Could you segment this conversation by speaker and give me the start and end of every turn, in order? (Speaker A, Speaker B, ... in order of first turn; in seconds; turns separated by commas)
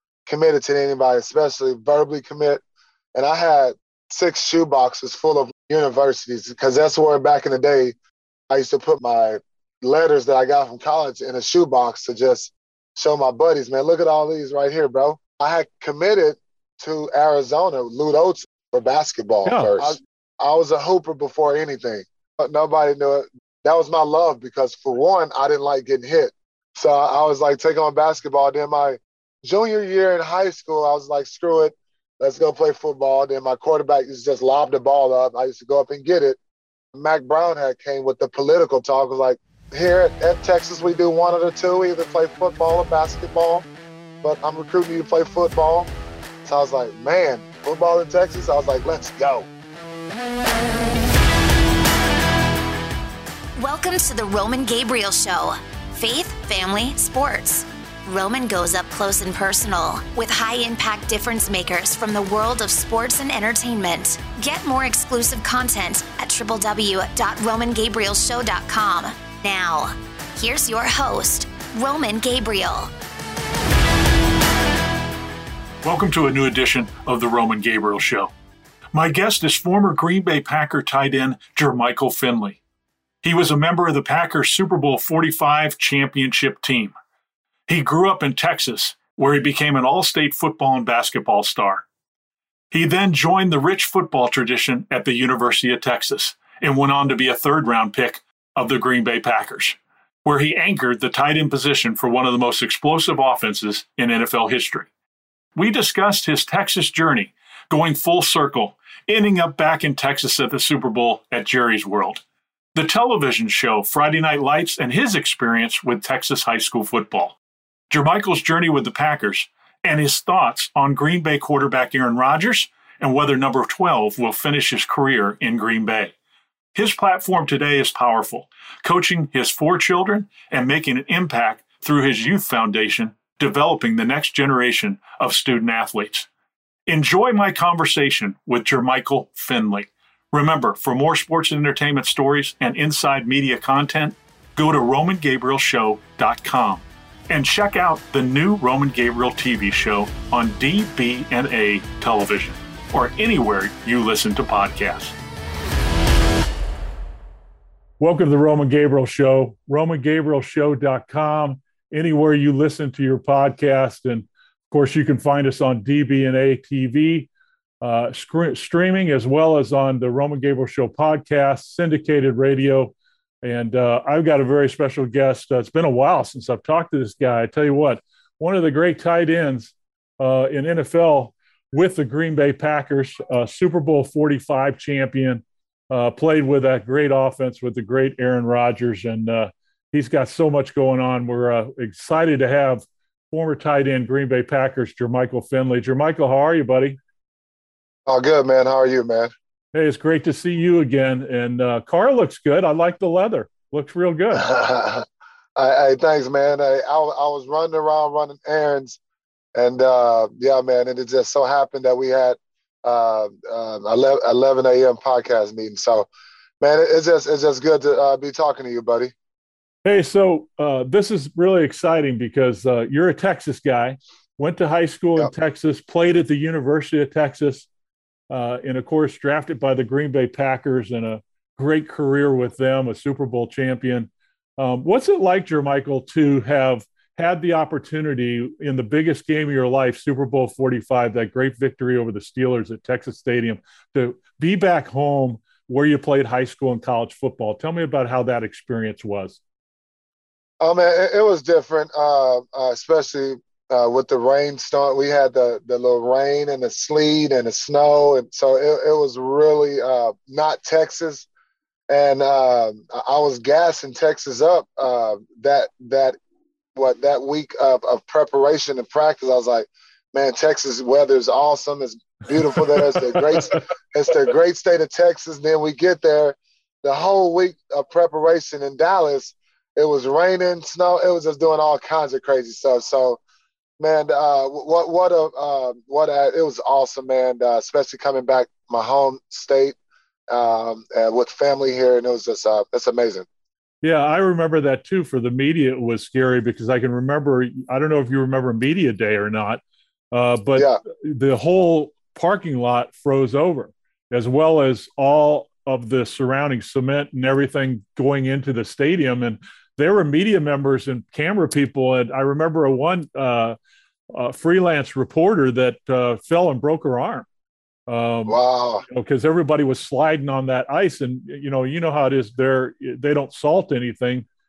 Speaker A: 0.2-2.6, Speaker A: 3.1-7.9, Speaker A: 8.5-36.4, Speaker B: 19.4-20.0, Speaker A: 36.9-43.6, Speaker A: 44.2-45.9, Speaker A: 46.4-49.5, Speaker C: 53.6-72.9, Speaker B: 75.8-78.3, Speaker B: 78.9-82.6, Speaker B: 83.2-86.9, Speaker B: 87.7-91.8, Speaker B: 92.7-104.9, Speaker B: 105.5-112.2, Speaker B: 112.7-117.4, Speaker B: 117.9-126.1, Speaker B: 126.7-136.3, Speaker B: 136.9-155.2, Speaker B: 158.0-167.3, Speaker B: 167.8-197.0, Speaker A: 198.1-199.3, Speaker B: 199.7-204.4, Speaker A: 204.3-205.0, Speaker A: 205.6-209.0, Speaker A: 209.5-216.1, Speaker A: 216.6-219.1, Speaker B: 219.8-227.7, Speaker B: 228.3-249.4, Speaker A: 250.6-261.2, Speaker A: 261.9-266.1, Speaker A: 266.7-283.2, Speaker B: 272.6-273.5, Speaker A: 283.8-289.8, Speaker A: 290.3-293.2, Speaker B: 293.8-299.6, Speaker B: 300.1-313.6, Speaker A: 300.6-300.8, Speaker B: 314.1-317.2, Speaker B: 317.9-318.4, Speaker A: 318.3-318.8, Speaker B: 318.9-324.2